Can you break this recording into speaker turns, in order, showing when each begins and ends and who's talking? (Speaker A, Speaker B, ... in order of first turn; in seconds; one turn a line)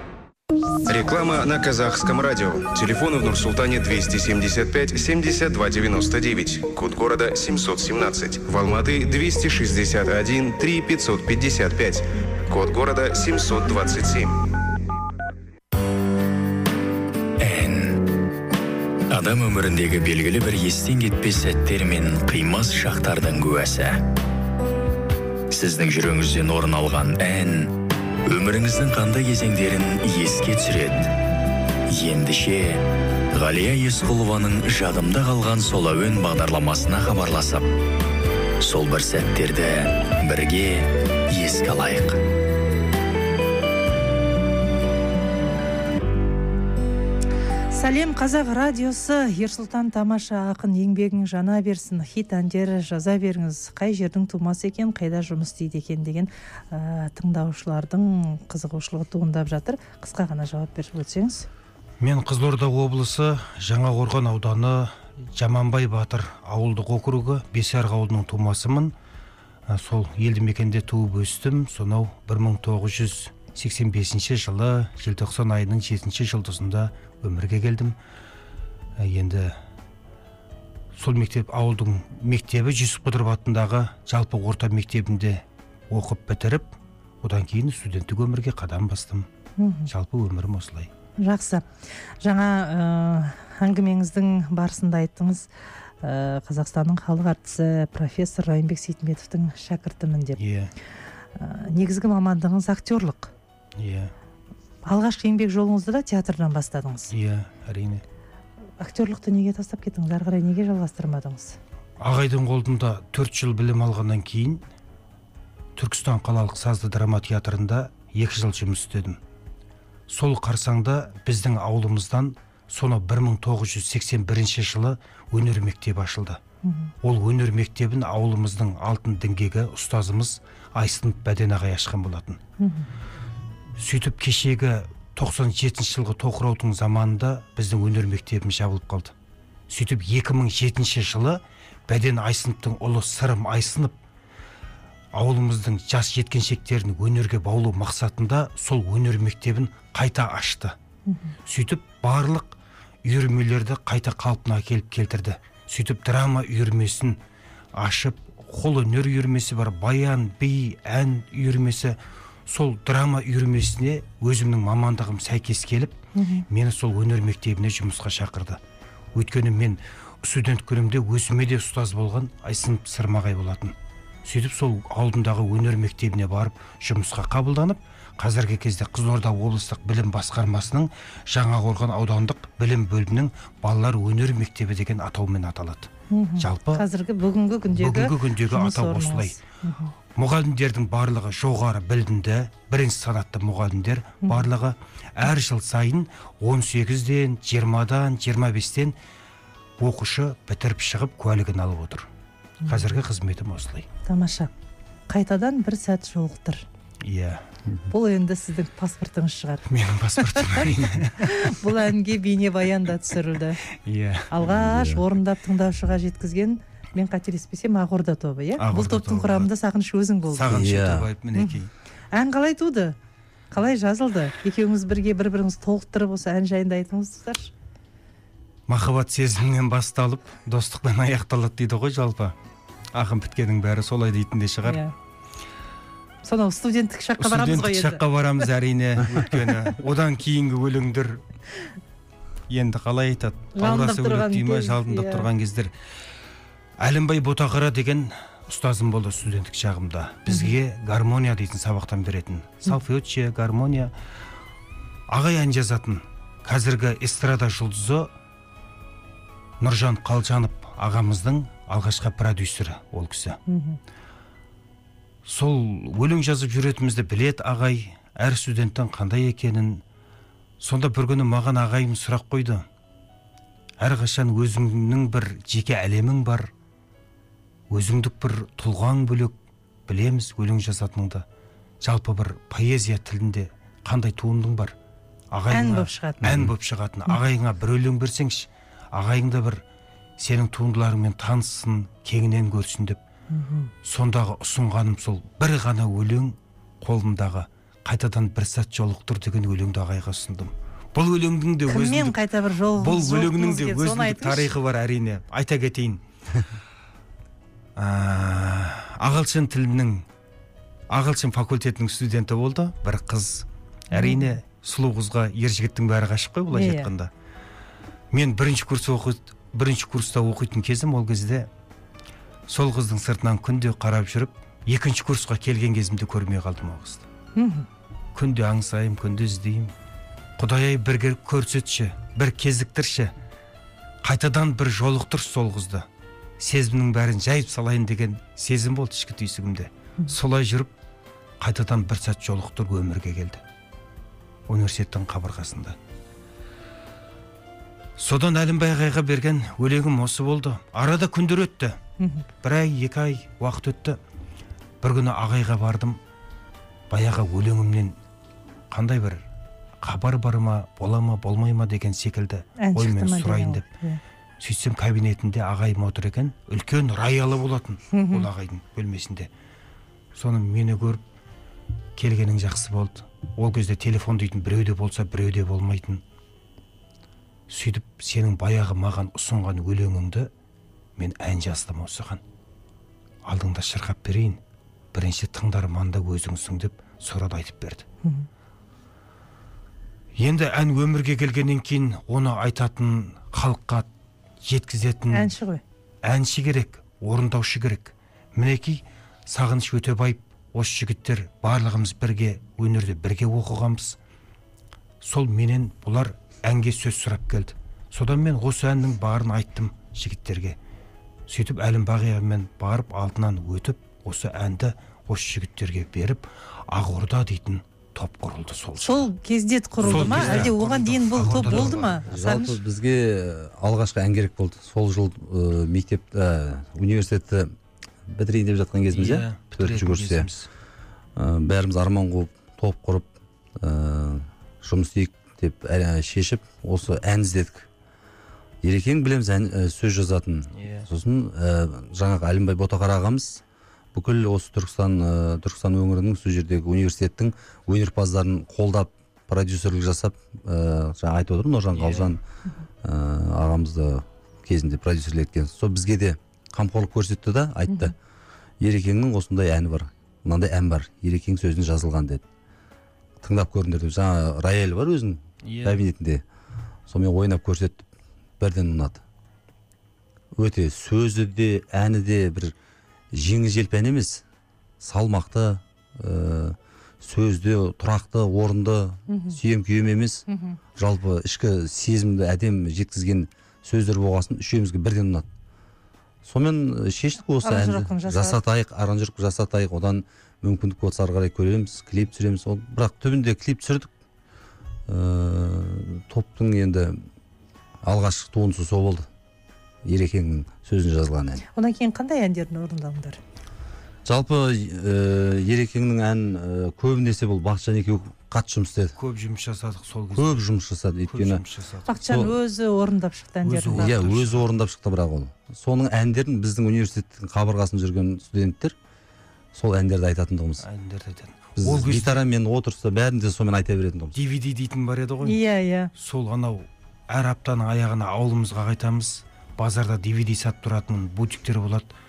Speaker A: 0.8-14.4
Speaker B: 17.4-18.0
Speaker B: 19.1-24.0
Speaker B: 25.5-27.7
Speaker B: 28.2-31.1
Speaker B: 31.9-37.7
Speaker B: 38.6-42.2
Speaker C: 47.7-61.5
Speaker D: 62.0-68.9
Speaker D: 69.7-78.0
Speaker D: 79.0-79.5
Speaker D: 81.0-89.3
Speaker C: 89.6-89.9
Speaker D: 89.9-90.9
Speaker C: 91.2-91.7
Speaker C: 92.2-95.5
Speaker C: 96.0-100.4
Speaker D: 100.4-100.7
Speaker C: 101.3-103.3
Speaker D: 103.8-104.1
Speaker C: 104.9-107.1
Speaker D: 107.1-108.0
Speaker C: 108.8-111.6
Speaker D: 112.0-114.6
Speaker D: 115.8-119.2
Speaker D: 120.1-126.4
Speaker C: 126.6-126.9
Speaker D: 127.0-132.4
Speaker C: 132.6-132.9
Speaker D: 133.8-139.1
Speaker D: 139.7-143.9
Speaker D: 145.1-150.7
Speaker D: 151.5-157.2
Speaker D: 157.8-162.0
Speaker D: 162.5-168.6
Speaker C: 166.2-166.4
Speaker D: 169.1-173.7
Speaker D: 174.2-186.8
Speaker C: 186.1-189.9
Speaker D: 187.8-189.4
Speaker D: 190.2-198.9
Speaker D: 199.8-202.1
Speaker C: 202.7-202.9
Speaker D: 202.7-203.9
Speaker C: 204.1-204.5
Speaker C: 205.1-206.6
Speaker D: 207.0-207.4
Speaker C: 207.9-209.7
Speaker D: 209.7-211.7
Speaker C: 210.3-213.6
Speaker D: 213.8-214.3
Speaker C: 214.3-220.6
Speaker E: 214.4-215.0
Speaker D: 218.6-219.5
Speaker D: 220.3-221.7
Speaker E: 220.5-221.1
Speaker C: 221.3-221.6
Speaker C: 222.1-222.9
Speaker C: 223.5-227.5
Speaker D: 228.7-232.3
Speaker D: 232.9-234.8
Speaker C: 234.6-234.9
Speaker C: 236.2-238.4
Speaker D: 237.2-241.2
Speaker C: 239.2-239.5
Speaker D: 242.5-245.7
Speaker C: 243.6-245.3
Speaker D: 246.8-253.9
Speaker D: 255.1-258.1
Speaker D: 259.6-263.4
Speaker C: 263.5-263.8
Speaker D: 265.2-269.8
Speaker D: 270.6-272.6
Speaker D: 273.8-276.5
Speaker D: 277.7-279.3
Speaker D: 279.9-281.2
Speaker D: 281.8-284.7
Speaker D: 285.3-289.6
Speaker C: 285.5-286.2
Speaker E: 286.2-286.5
Speaker D: 290.2-293.0
Speaker C: 293.3-293.7
Speaker D: 293.8-302.2
Speaker C: 301.7-304.5
Speaker D: 302.8-306.0
Speaker D: 307.8-310.0
Speaker D: 310.9-317.1
Speaker C: 313.9-314.4
Speaker C: 316.5-316.9
Speaker D: 318.1-321.5
Speaker D: 322.5-327.0
Speaker C: 327.4-327.7
Speaker D: 328.1-329.7
Speaker D: 330.4-333.1
Speaker D: 334.0-335.9
Speaker D: 336.4-340.7
Speaker D: 341.4-343.4
Speaker D: 344.5-345.8
Speaker D: 348.0-351.8
Speaker C: 352.0-352.2
Speaker D: 352.4-354.0
Speaker D: 354.8-356.0
Speaker D: 356.9-357.9
Speaker D: 358.7-359.2
Speaker D: 359.8-363.6
Speaker C: 362.6-364.0
Speaker D: 364.4-369.3
Speaker C: 367.9-368.3
Speaker D: 370.1-371.0
Speaker D: 371.9-376.0
Speaker D: 377.5-380.3
Speaker D: 381.0-382.2
Speaker D: 383.2-384.4
Speaker D: 384.9-387.8
Speaker D: 390.2-393.9
Speaker D: 394.4-395.3
Speaker C: 395.1-395.6
Speaker D: 396.0-404.0
Speaker D: 405.0-410.6
Speaker D: 411.3-419.1
Speaker C: 418.8-422.6
Speaker D: 419.8-422.1
Speaker E: 419.9-420.5
Speaker E: 421.4-427.5
Speaker E: 428.1-430.3
Speaker D: 428.9-430.4
Speaker E: 431.1-437.7
Speaker E: 438.6-443.4
Speaker D: 440.6-440.9
Speaker E: 443.9-452.2
Speaker D: 451.7-452.1
Speaker E: 452.8-457.9
Speaker E: 458.6-462.2
Speaker E: 463.2-466.2
Speaker D: 465.4-465.8
Speaker E: 466.9-467.9
Speaker E: 468.4-469.0
Speaker E: 470.4-472.5
Speaker E: 473.1-474.2
Speaker E: 474.8-480.2
Speaker C: 479.1-479.4
Speaker C: 480.3-480.6
Speaker E: 480.8-485.3
Speaker E: 486.2-493.9
Speaker C: 487.3-488.4
Speaker E: 494.9-497.0
Speaker E: 497.8-499.1
Speaker E: 499.8-501.4
Speaker C: 501.6-503.2
Speaker E: 504.0-508.9
Speaker D: 508.9-510.4
Speaker E: 510.1-511.4
Speaker D: 511.1-511.9
Speaker C: 511.9-514.1
Speaker E: 512.0-512.3
Speaker D: 513.4-514.4
Speaker E: 513.8-518.8
Speaker E: 519.5-520.6
Speaker D: 520.6-522.2
Speaker E: 521.6-524.1
Speaker D: 524.1-525.4
Speaker C: 525.2-525.9
Speaker D: 526.0-531.9